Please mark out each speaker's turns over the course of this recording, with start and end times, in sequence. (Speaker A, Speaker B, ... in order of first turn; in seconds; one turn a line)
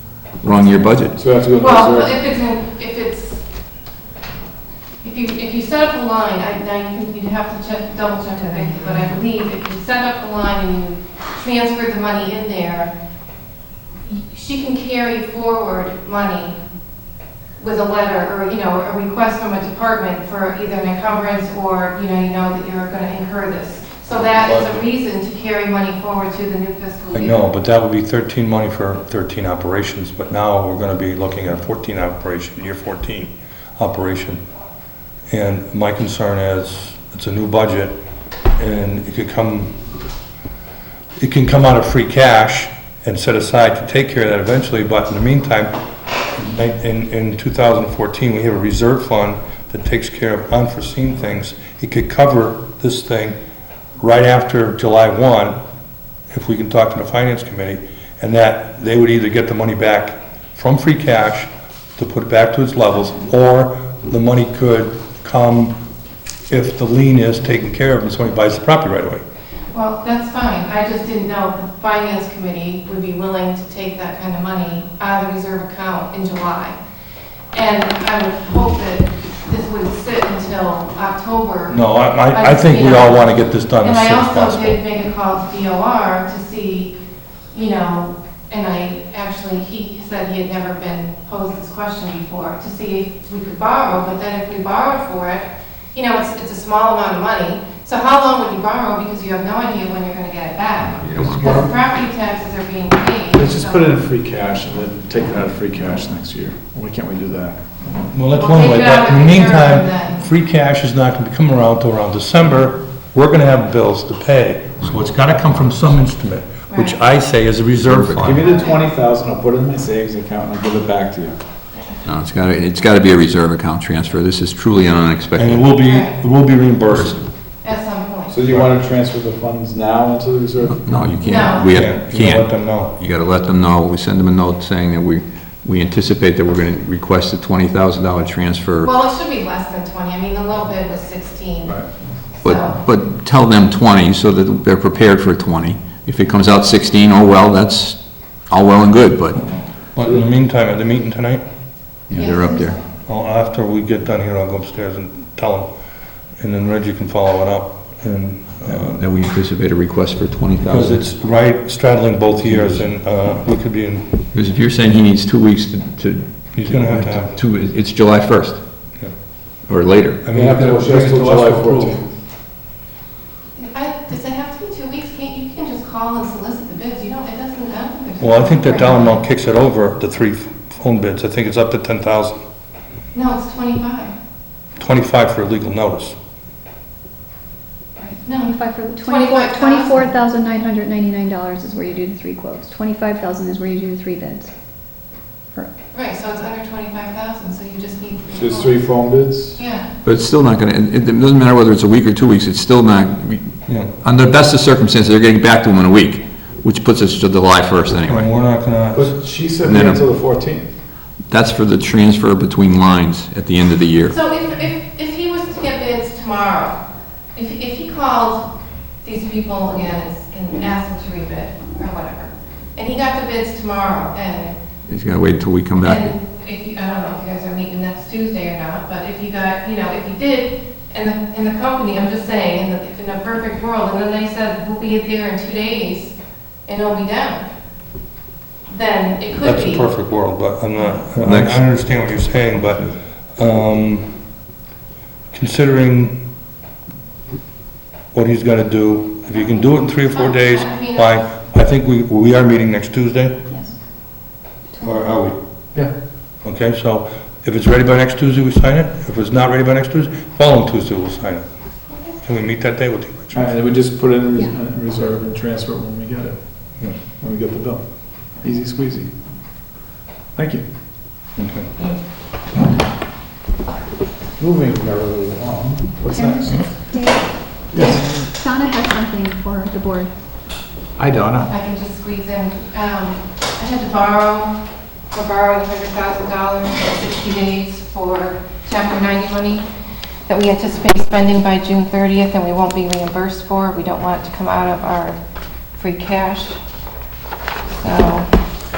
Speaker A: 0.3-1.2
Speaker B: 1.1-2.2
Speaker C: 1.6-3.4
Speaker C: 5.0-12.9
Speaker C: 14.0-16.6
Speaker C: 17.6-27.4
Speaker D: 24.4-24.8
Speaker D: 27.1-34.4
Speaker D: 35.3-38.0
Speaker D: 38.6-39.7
Speaker D: 41.2-45.7
Speaker D: 46.3-53.4
Speaker D: 54.0-55.6
Speaker D: 56.3-65.7
Speaker D: 66.5-69.2
Speaker C: 69.7-76.8
Speaker C: 77.5-87.0
Speaker D: 81.7-84.8
Speaker C: 87.5-104.0
Speaker A: 100.9-101.7
Speaker B: 103.3-107.6
Speaker D: 108.1-118.4
Speaker C: 108.3-110.2
Speaker C: 116.7-117.0
Speaker A: 117.9-118.3
Speaker B: 118.2-121.4
Speaker C: 118.4-118.9
Speaker A: 122.0-125.7
Speaker D: 125.4-127.2
Speaker C: 125.8-126.2
Speaker A: 126.9-127.2
Speaker C: 127.6-128.4
Speaker B: 128.3-131.0
Speaker A: 130.7-138.9
Speaker C: 131.2-131.8
Speaker D: 131.7-132.9
Speaker C: 138.8-141.8
Speaker C: 142.4-142.8
Speaker A: 142.4-149.4
Speaker D: 149.9-151.4
Speaker A: 152.1-152.8
Speaker C: 152.1-152.8
Speaker D: 153.1-155.7
Speaker D: 156.4-159.0
Speaker A: 158.7-161.0
Speaker D: 160.6-164.2
Speaker A: 162.4-162.9
Speaker A: 164.3-168.6
Speaker D: 166.5-167.3
Speaker A: 169.7-170.2
Speaker D: 170.2-172.0
Speaker B: 170.3-172.1
Speaker C: 173.6-179.2
Speaker D: 178.2-182.4
Speaker C: 183.1-184.2
Speaker D: 184.8-186.2
Speaker C: 188.1-190.1
Speaker E: 188.4-194.5
Speaker C: 195.9-198.9
Speaker B: 198.3-199.6
Speaker C: 199.6-199.9
Speaker A: 200.1-208.3
Speaker D: 203.7-203.9
Speaker D: 208.1-209.2
Speaker B: 208.9-210.7
Speaker A: 209.6-210.0
Speaker A: 211.3-214.2
Speaker C: 214.1-216.8
Speaker C: 217.4-218.5
Speaker C: 219.0-224.6
Speaker A: 224.9-226.1
Speaker C: 225.8-236.2
Speaker C: 236.7-237.5
Speaker C: 238.7-239.9
Speaker D: 239.4-244.1
Speaker A: 241.2-241.6
Speaker D: 245.3-246.2
Speaker D: 248.1-253.4
Speaker C: 249.7-251.2
Speaker E: 254.7-255.2
Speaker D: 254.8-255.4
Speaker D: 256.4-261.4
Speaker D: 262.2-263.5
Speaker B: 263.3-266.4
Speaker B: 267.0-267.8
Speaker B: 268.4-269.1
Speaker B: 270.4-270.6
Speaker D: 271.4-271.7
Speaker B: 274.4-276.6
Speaker E: 276.1-280.1
Speaker B: 277.7-278.1
Speaker B: 281.0-281.5
Speaker C: 281.5-284.6
Speaker C: 285.1-289.6
Speaker C: 290.3-295.2
Speaker C: 295.8-296.6
Speaker C: 297.8-298.3